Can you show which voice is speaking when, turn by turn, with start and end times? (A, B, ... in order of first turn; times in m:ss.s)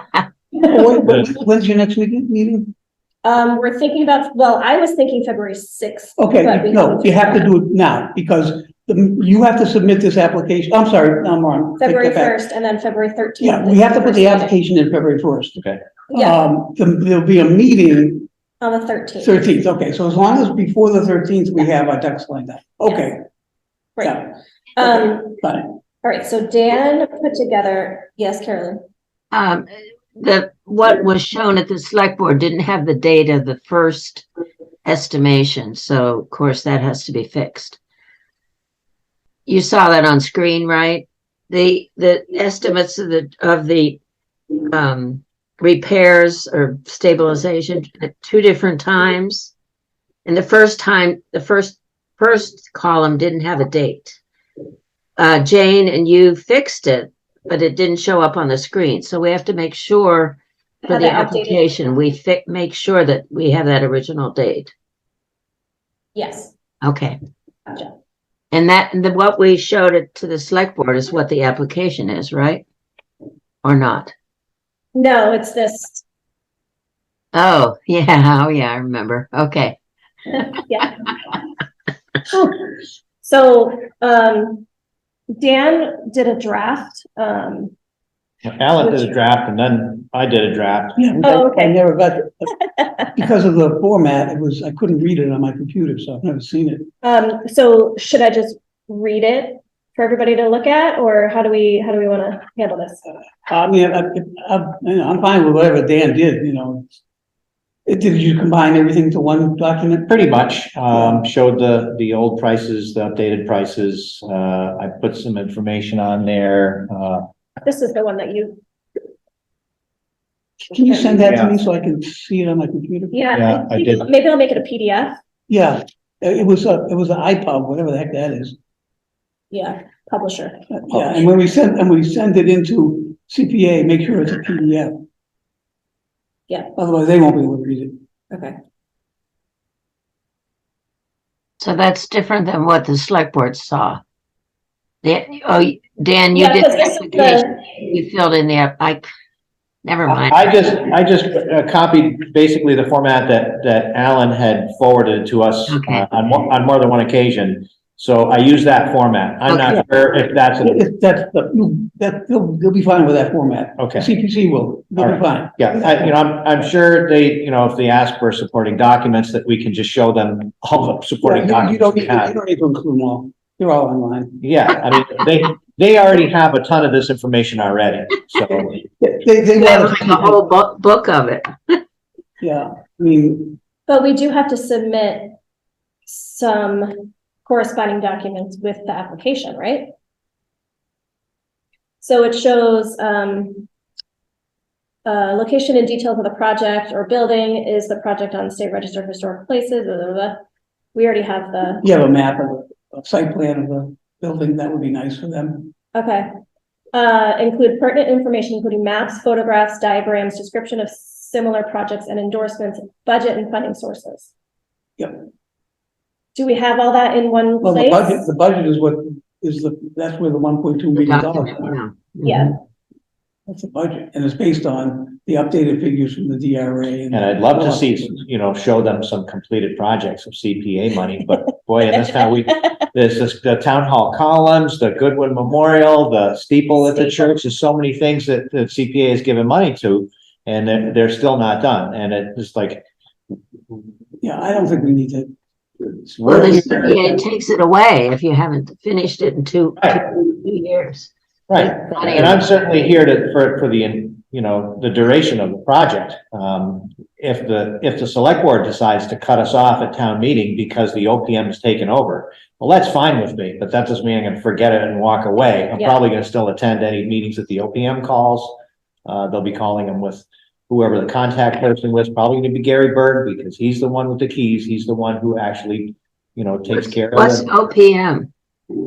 0:00.5-0:02.7 A
0:01.0-0:01.3 B
0:03.2-0:07.5 C
0:06.2-0:12.4 A
0:11.8-0:14.5 C
0:13.4-0:18.3 A
0:16.1-0:16.4 C
0:18.6-0:19.4 C
0:19.2-0:23.2 A
0:24.0-0:25.7 A
0:24.8-0:25.4 C
0:26.0-0:28.8 C
0:29.3-0:34.3 D
0:34.8-0:37.8 D
0:39.4-0:44.0 D
0:44.7-0:49.5 D
0:50.2-0:54.2 D
0:55.2-1:04.7 D
1:00.8-1:01.7 C
1:06.2-1:06.5 C
1:06.8-1:07.2 D
1:07.7-1:07.9 C
1:08.5-1:12.6 D
1:13.6-1:14.1 D
1:14.9-1:16.0 C
1:17.3-1:19.8 D
1:20.7-1:20.9 C
1:22.3-1:22.6 C
1:23.2-1:24.6 C
1:25.4-1:27.7 C
1:28.4-1:31.0 B
1:28.8-1:29.1 C
1:31.0-1:32.5 A
1:31.2-1:31.8 C
1:32.5-1:33.1 C
1:33.2-1:36.9 A
1:37.0-1:43.0 C
1:43.5-1:47.0 A
1:47.8-1:50.2 A
1:50.1-1:57.2 B
1:50.9-1:51.3 A
1:57.6-1:58.6 C
2:00.7-2:03.2 A
2:01.2-2:01.5 B
2:03.1-2:05.2 C
2:03.3-2:04.1 B
2:05.5-2:08.6 A
2:09.5-2:10.7 C
2:10.8-2:15.0 A
2:16.8-2:18.0 A
2:18.3-2:18.6 C
2:21.6-2:24.0 D
2:25.0-2:29.1 D
2:26.3-2:27.6 C
2:29.8-2:30.6 D
2:30.1-2:40.8 B
2:35.7-2:36.0 D
2:39.5-2:39.8 D
2:40.6-2:46.1 A
2:43.8-2:44.1 B
2:45.0-2:52.3 B
2:51.2-2:54.4 A
2:54.4-2:58.8 B
2:59.0-3:00.4 A
2:59.5-3:01.8 D
3:02.4-3:03.6 A
3:03.9-3:05.4 C
3:06.1-3:09.9 C
3:12.0-3:13.7 C
3:15.0-3:20.4 C
3:20.9-3:21.8 C
3:21.8-3:25.7 A
3:25.9-3:26.3 C
3:26.9-3:34.3 C
3:35.0-3:35.3 A
3:36.3-3:38.2 C
3:37.6-3:41.8 A
3:41.0-3:42.5 D
3:42.2-3:42.6 C
3:43.5-3:48.2 A
3:47.1-4:02.9 B
3:51.9-3:52.2 C
4:04.2-4:05.3 A
4:05.8-4:07.2 A
4:06.2-4:06.7 B
4:06.2-4:12.5 D
4:11.5-4:37.5 B
4:36.8-4:38.3 D